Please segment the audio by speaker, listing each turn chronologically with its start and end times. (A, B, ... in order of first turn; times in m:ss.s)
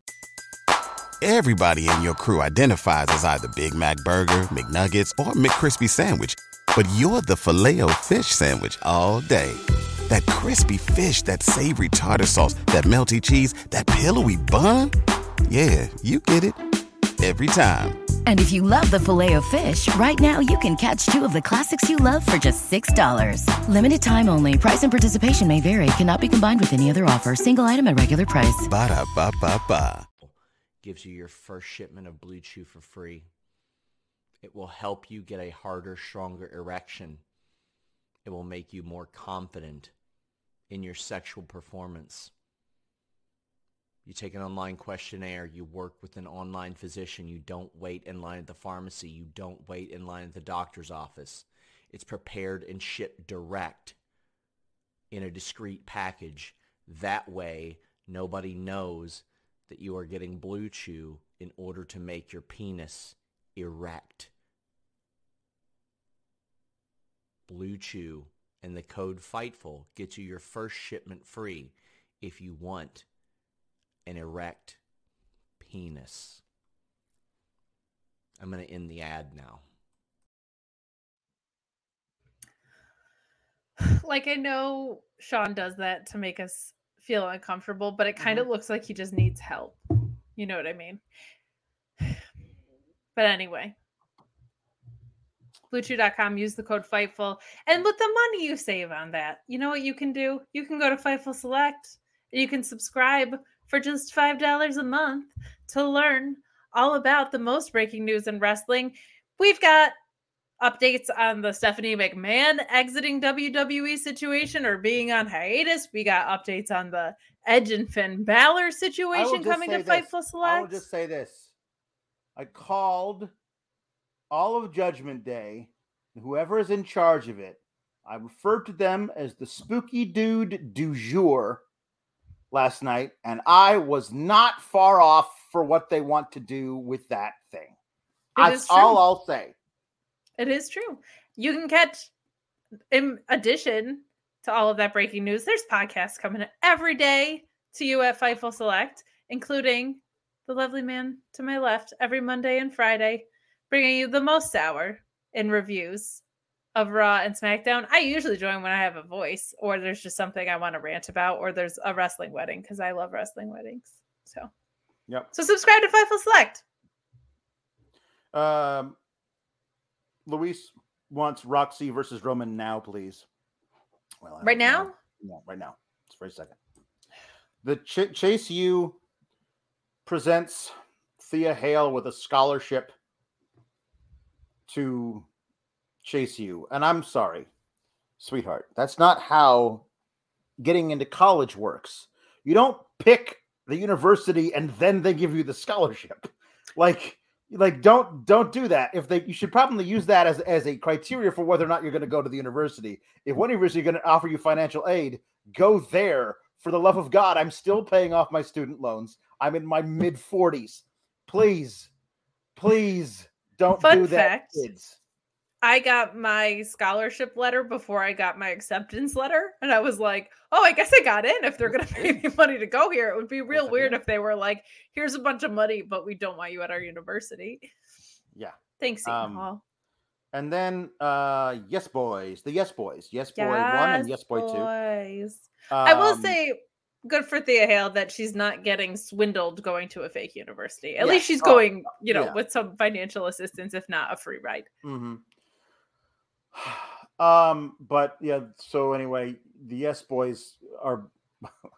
0:01.2-0:15.0 A
0:15.5-0:16.6 A
0:17.2-0:18.0 A
0:18.3-0:28.7 B
0:28.6-0:30.0 A
0:30.8-0:33.3 C
0:34.4-0:37.2 C
0:38.2-0:39.9 C
0:40.7-0:42.3 C
0:44.0-0:54.0 C
0:55.1-1:04.3 C
1:07.5-1:13.0 C
1:14.0-1:14.8 C
1:15.6-1:16.4 C
1:18.4-1:19.6 C
1:23.8-1:29.8 D
1:28.2-1:28.5 E
1:30.4-1:31.0 D
1:33.2-1:33.8 D
1:35.7-1:50.0 D
1:50.6-2:00.8 D
1:59.1-2:01.5 E
2:02.4-2:03.3 E
2:04.3-2:11.6 E
2:12.5-2:17.8 E
2:18.4-2:19.0 D
2:18.4-2:19.6 E
2:20.4-2:22.1 D
2:22.9-2:36.2 D
2:36.8-2:44.5 D
2:45.3-2:46.6 D
2:48.3-2:49.0 E
2:50.3-2:53.2 E
2:54.2-2:56.6 E
2:54.4-2:54.9 D
2:57.6-2:59.0 E
3:00.0-3:02.9 E
3:04.7-3:05.3 E
3:06.0-3:07.5 E
3:08.2-3:09.8 E
3:10.6-3:31.9 E
3:32.6-3:35.0 E
3:33.8-3:34.6 D
3:35.6-3:47.7 D
3:43.5-3:44.0 E
3:48.4-3:49.5 E
3:48.8-3:49.6 D
3:50.3-3:54.7 E
3:53.4-4:04.7 D
3:55.7-3:56.4 E
4:01.0-4:02.4 E
4:04.8-4:05.2 E
4:06.5-4:11.5 E